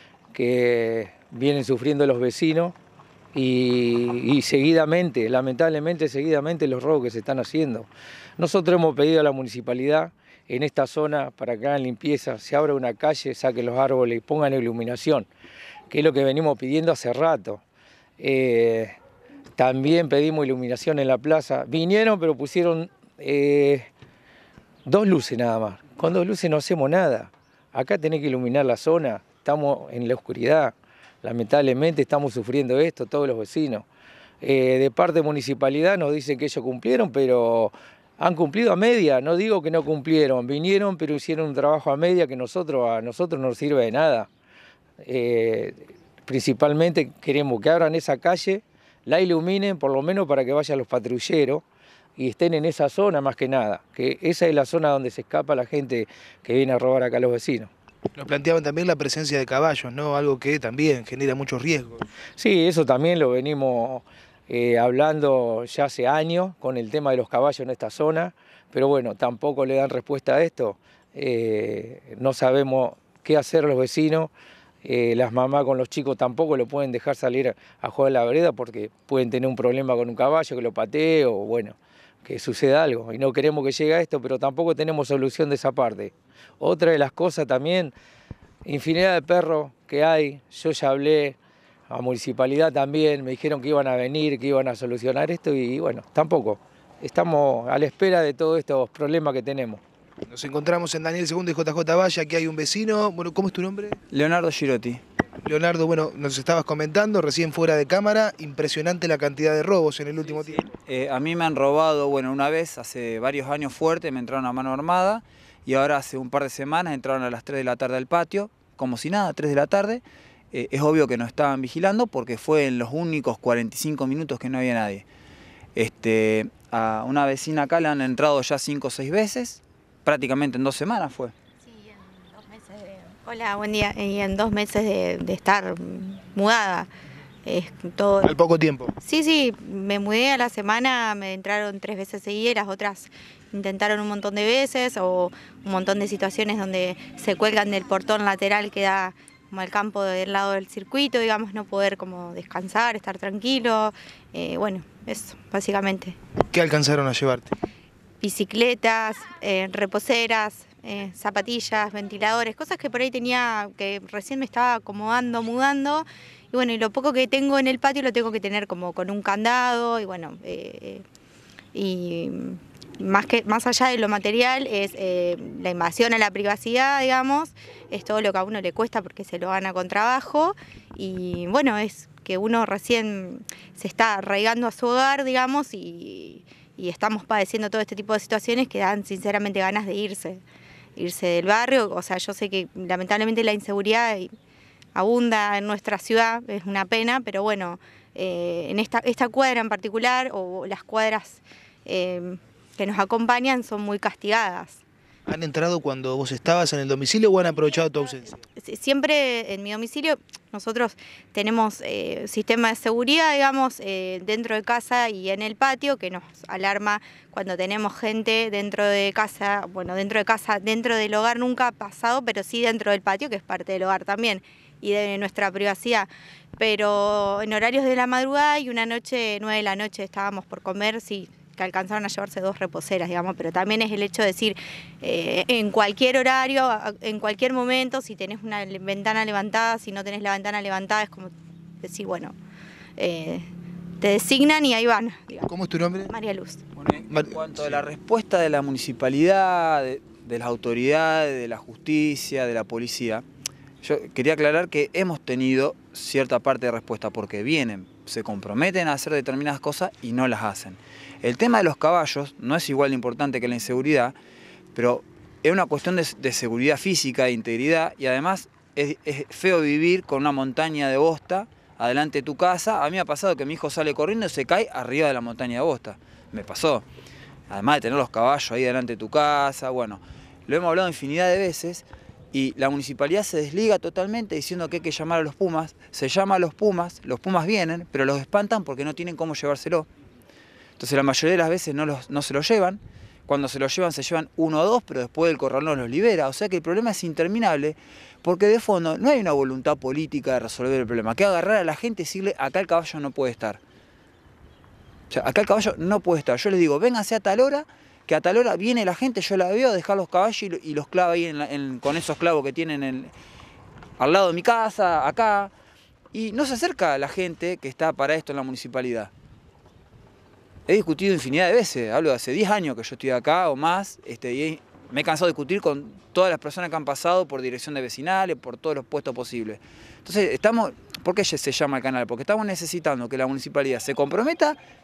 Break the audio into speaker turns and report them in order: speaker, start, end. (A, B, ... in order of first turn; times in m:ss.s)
0:00.3-0:02.8 A
0:03.3-0:15.3 A
0:15.9-0:17.6 A
0:18.2-0:18.9 A
0:19.6-0:23.9 A
0:24.8-0:33.8 A
0:34.4-0:44.3 A
0:45.0-0:51.6 A
0:52.2-0:57.7 A
0:58.2-1:02.0 B
1:02.4-1:14.3 A
1:14.8-1:27.9 A
1:28.6-1:31.4 A
1:31.9-1:39.8 A
1:40.3-1:44.0 B
1:44.1-1:45.0 C
1:45.4-1:50.6 B
1:50.6-2:05.0 C
2:05.7-2:11.3 C
2:11.6-2:16.9 D
2:17.4-2:18.3 D
2:18.2-2:18.9 B
2:19.0-2:36.2 D
2:36.5-2:37.5 B
2:38.2-2:51.0 D
2:51.7-3:10.4 D
3:11.0-3:14.3 D
3:14.9-3:24.8 D
3:25.3-3:28.4 B
3:28.6-3:46.1 D
3:46.6-4:02.3 D
4:03.0-4:03.5 D
4:04.0-4:05.5 D
4:05.5-4:06.1 B
4:06.1-4:06.6 D
4:06.7-4:13.2 C
4:07.1-4:07.8 B
4:13.8-4:24.2 C
4:24.7-4:36.8 C
4:37.5-4:49.9 C
4:50.8-5:03.6 C
5:05.1-5:13.1 C
5:14.0-5:15.5 C
5:16.1-5:19.1 C
5:20.7-5:34.6 C